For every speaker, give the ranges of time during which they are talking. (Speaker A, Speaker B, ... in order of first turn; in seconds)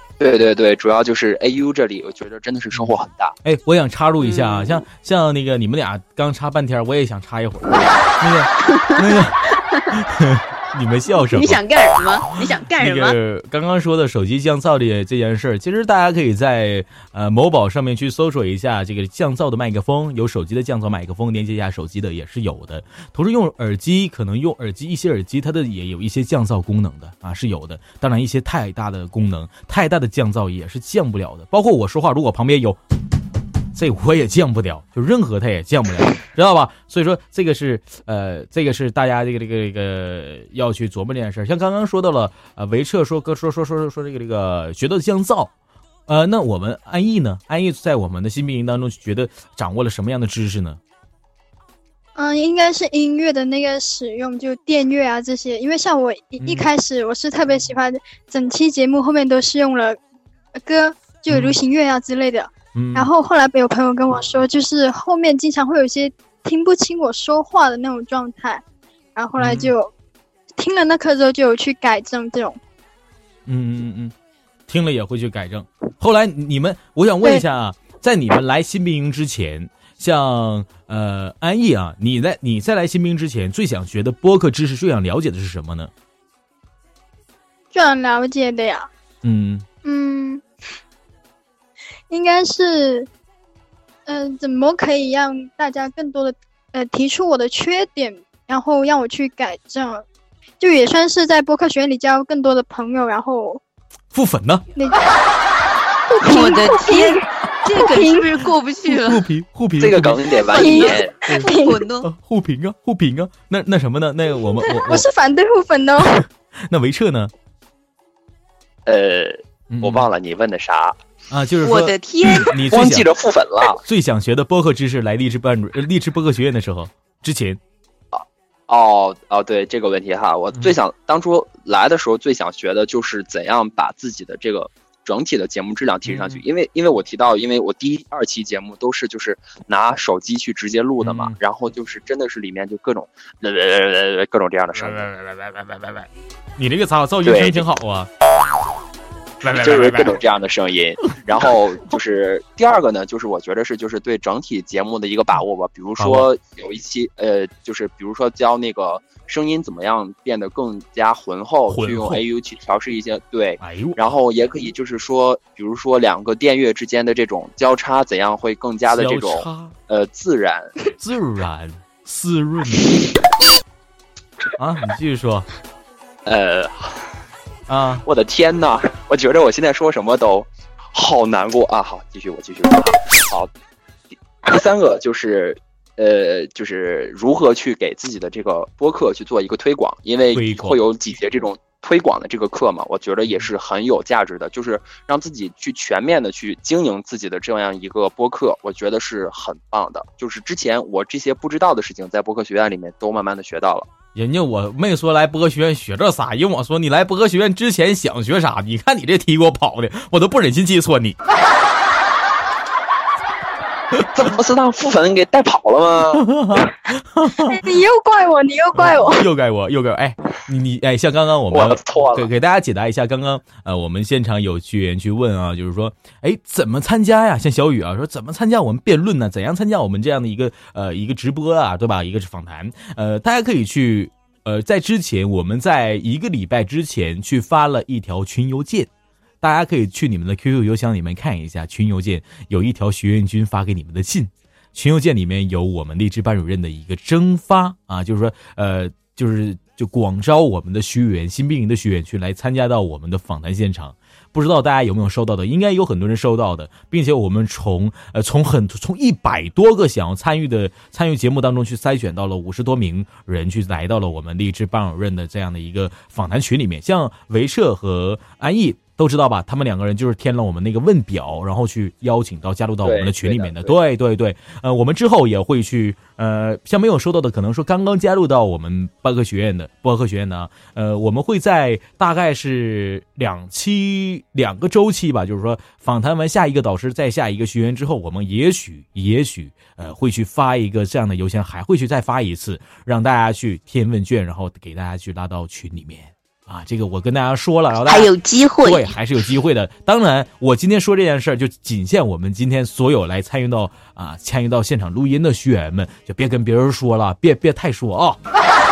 Speaker A: 0.2-3.4, 109.8-111.2, 118.9-121.0, 122.7-123.8, 128.1-145.1, 147.2-147.7, 149.5-170.8, 176.2-177.1, 178.0-183.5, 184.4-203.9, 214.2-216.3, 221.5-222.3, 272.8-273.8
Speaker B: 3.5-11.6, 12.8-32.8, 33.7-45.5, 46.1-50.8, 56.4-56.7, 61.3-61.6, 62.8-63.1, 69.4-69.7, 73.5-74.1, 74.7-85.9, 89.2-89.7, 104.1-104.6, 108.9-110.2, 112.0-115.1, 116.7-117.3, 119.7-120.1, 121.3-123.1, 123.8-127.6, 136.1-136.4, 141.0-141.3, 144.8-148.1, 149.4-150.2, 156.0-156.3, 161.7-162.2, 163.6-164.0, 168.9-169.8, 171.0-173.0, 174.6-175.5, 177.7-178.1, 190.3-190.8, 204.2-211.2, 216.1-217.6, 218.8-238.9, 239.4-298.1, 298.6-308.2
Speaker C: 4.2-4.8, 8.7-9.2, 11.2-13.2, 106.2-109.3, 110.5-112.1, 121.6-122.6, 297.9-298.9
Speaker D: 52.2-60.0, 60.6-68.6, 69.2-69.9, 70.6-72.6, 87.7-88.9, 89.8-90.4, 92.1-93.1, 94.1-100.0, 100.6-103.6, 106.1-108.3, 110.5-111.8, 114.9-116.2, 217.4-219.3